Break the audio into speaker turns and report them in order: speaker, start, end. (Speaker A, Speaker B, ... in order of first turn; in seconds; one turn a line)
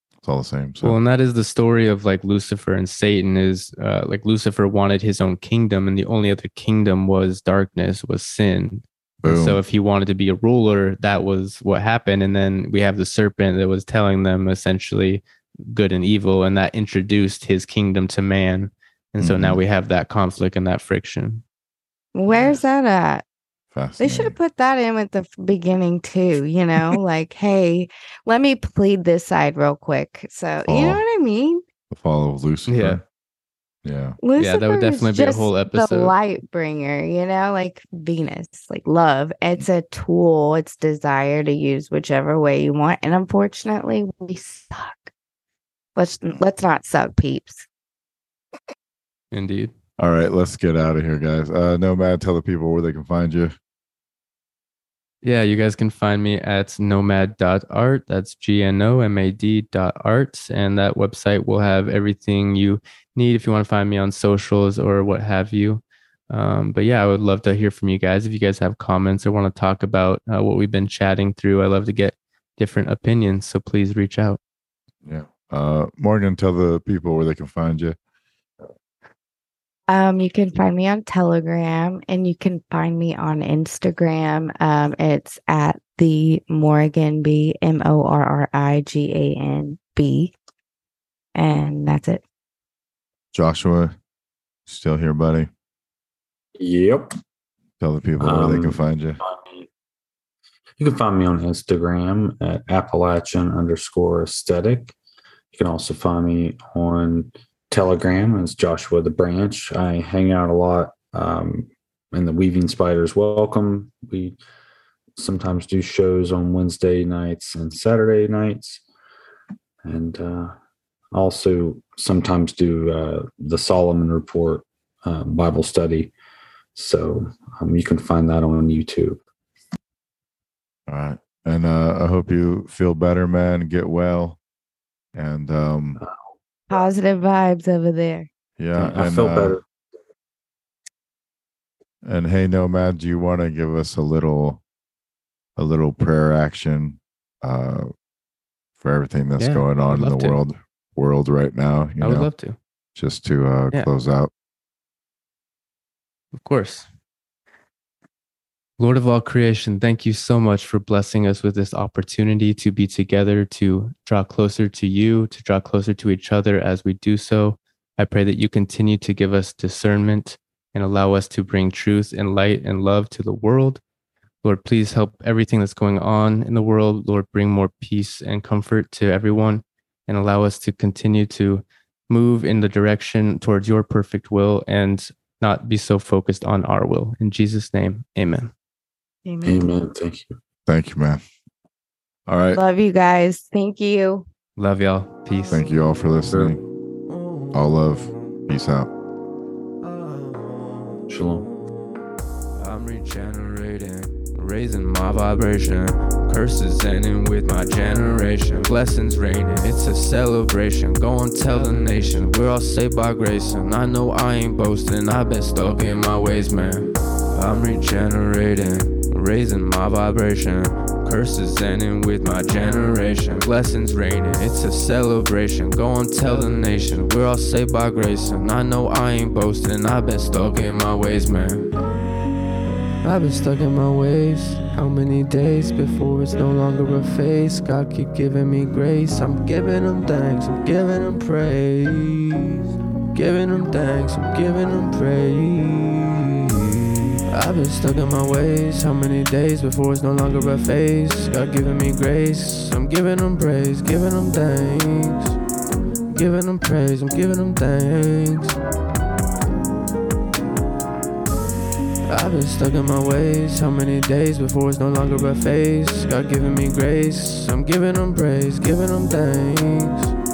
Speaker A: 0.2-1.0
Speaker B: 0.8-21.4
Speaker A: 9.2-9.6
Speaker A: 19.2-19.6
Speaker C: 22.1-23.2
Speaker A: 23.8-24.4
Speaker C: 24.0-31.6
Speaker A: 30.7-31.0
Speaker A: 31.9-33.0
Speaker B: 32.7-33.0
Speaker A: 33.9-34.2
Speaker C: 34.2-45.1
Speaker B: 34.4-36.1
Speaker C: 46.0-47.7
Speaker B: 49.3-49.7
Speaker A: 50.0-53.5
Speaker B: 55.2-74.4
Speaker A: 75.0-78.0
Speaker C: 79.9-90.3
Speaker C: 91.3-92.2
Speaker A: 93.3-94.0
Speaker A: 94.7-95.5
Speaker D: 96.6-97.1
Speaker A: 97.8-99.2
Speaker D: 98.2-99.7
Speaker D: 100.8-105.0
Speaker D: 105.5-114.4
Speaker D: 115.2-118.8
Speaker D: 119.8-120.5
Speaker D: 121.1-126.1
Speaker D: 126.8-129.2
Speaker A: 130.9-134.4
Speaker A: 135.1-136.0
Speaker D: 136.0-136.3
Speaker C: 136.7-138.3
Speaker A: 138.6-139.6
Speaker D: 138.8-139.6
Speaker A: 142.0-144.6
Speaker A: 145.6-147.9
Speaker A: 148.8-152.3
Speaker B: 149.4-150.4
Speaker B: 152.0-152.6
Speaker A: 152.9-154.3
Speaker B: 156.4-156.9
Speaker B: 158.8-173.8
Speaker B: 174.4-188.5
Speaker C: 189.2-189.7
Speaker D: 189.4-190.3
Speaker A: 190.7-191.2
Speaker A: 192.3-192.6
Speaker C: 192.5-194.2
Speaker B: 194.6-195.6
Speaker A: 195.5-196.6
Speaker E: 197.1-197.6
Speaker A: 197.5-198.9
Speaker E: 199.8-201.6
Speaker D: 201.1-201.5
Speaker E: 202.6-231.7
Speaker E: 233.0-242.6
Speaker E: 243.1-246.2
Speaker E: 247.3-255.3
Speaker E: 256.1-258.6
Speaker E: 262.1-270.1